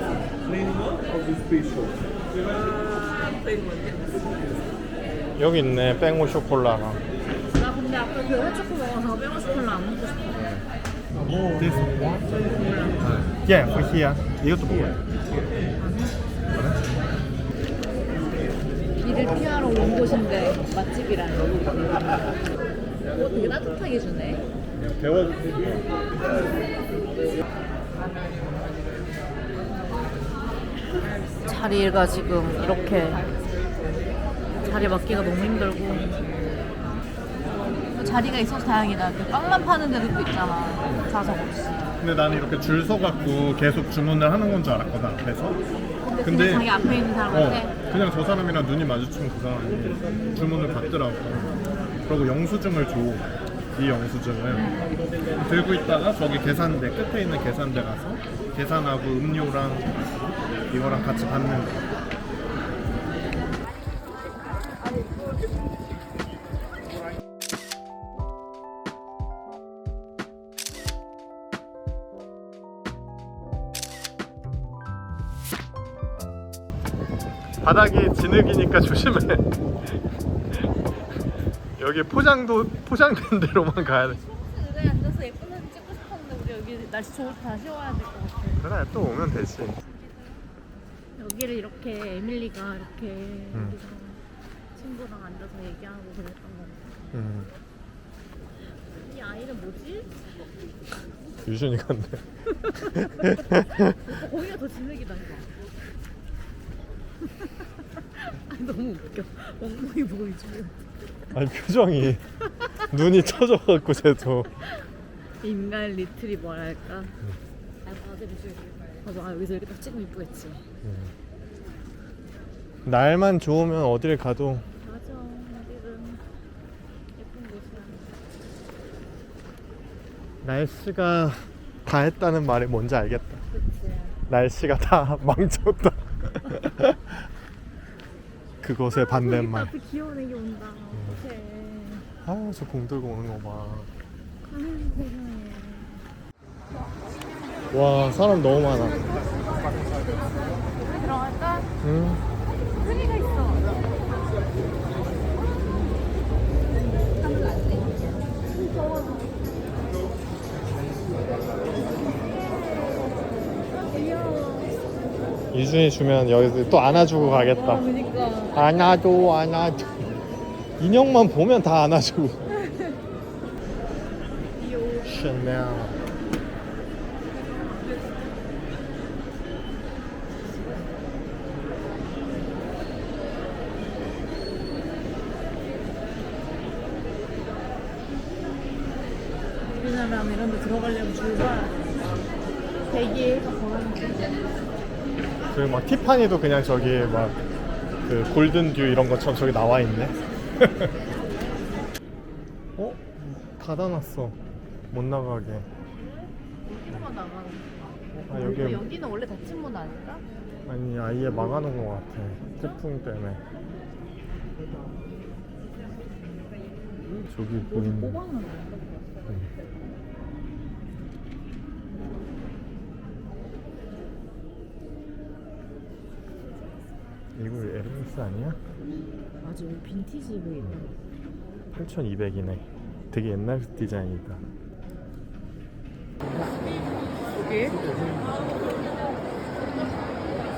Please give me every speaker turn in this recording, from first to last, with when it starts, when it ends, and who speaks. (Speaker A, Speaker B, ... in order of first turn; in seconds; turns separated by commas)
Speaker A: 2.6-3.8, Speaker B: 5.4-7.0, Speaker A: 7.5-10.3, Speaker B: 10.3-10.6, Speaker B: 11.4-12.4, Speaker A: 12.6-13.0, Speaker B: 13.0-15.0, Speaker A: 15.8-16.2, Speaker B: 16.5-16.8, Speaker A: 19.0-22.2, Speaker A: 23.1-24.5, Speaker B: 24.8-25.8, Speaker A: 31.4-33.3, Speaker A: 34.6-36.1, Speaker A: 37.9-41.8, Speaker B: 42.0-45.6, Speaker A: 46.0-47.7, Speaker B: 46.2-54.8, Speaker A: 50.0-50.5, Speaker A: 54.5-54.9, Speaker B: 55.4-59.9, Speaker B: 60.7-61.9, Speaker B: 77.6-79.5, Speaker B: 81.8-84.2, Speaker A: 84.3-88.6, Speaker B: 88.6-89.8, Speaker A: 91.2-94.2, Speaker A: 94.8-97.0, Speaker B: 97.1-97.5, Speaker A: 99.0-100.2, Speaker B: 101.5-104.0, Speaker A: 102.6-105.5, Speaker A: 107.4-110.8, Speaker B: 111.3-112.2, Speaker B: 112.8-114.5, Speaker A: 115.4-117.2, Speaker A: 117.8-120.6, Speaker B: 120.8-121.1, Speaker B: 122.8-124.7, Speaker A: 124.8-126.2, Speaker A: 127.2-128.2, Speaker B: 130.4-133.4, Speaker A: 133.5-134.2, Speaker B: 134.3-137.2, Speaker B: 138.6-139.7, Speaker A: 138.9-142.1, Speaker B: 142.2-143.9, Speaker A: 144.4-146.0, Speaker B: 147.7-149.2, Speaker A: 150.8-151.7, Speaker B: 151.8-152.2, Speaker A: 152.8-153.7, Speaker A: 162.8-164.7, Speaker B: 165.5-167.9, Speaker A: 167.4-168.6, Speaker B: 168.5-170.1, Speaker B: 170.8-172.5, Speaker A: 174.6-175.1, Speaker B: 175.0-176.0, Speaker A: 189.7-191.8, Speaker A: 192.9-194.4, Speaker B: 195.5-197.4, Speaker B: 198.1-200.9, Speaker B: 202.8-204.4, Speaker B: 204.9-205.7, Speaker A: 206.7-210.2, Speaker B: 208.3-208.9, Speaker B: 210.7-213.4, Speaker B: 217.2-218.2, Speaker A: 217.6-219.0, Speaker B: 227.3-228.6, Speaker A: 229.4-230.9, Speaker B: 231.7-234.4, Speaker A: 237.3-237.8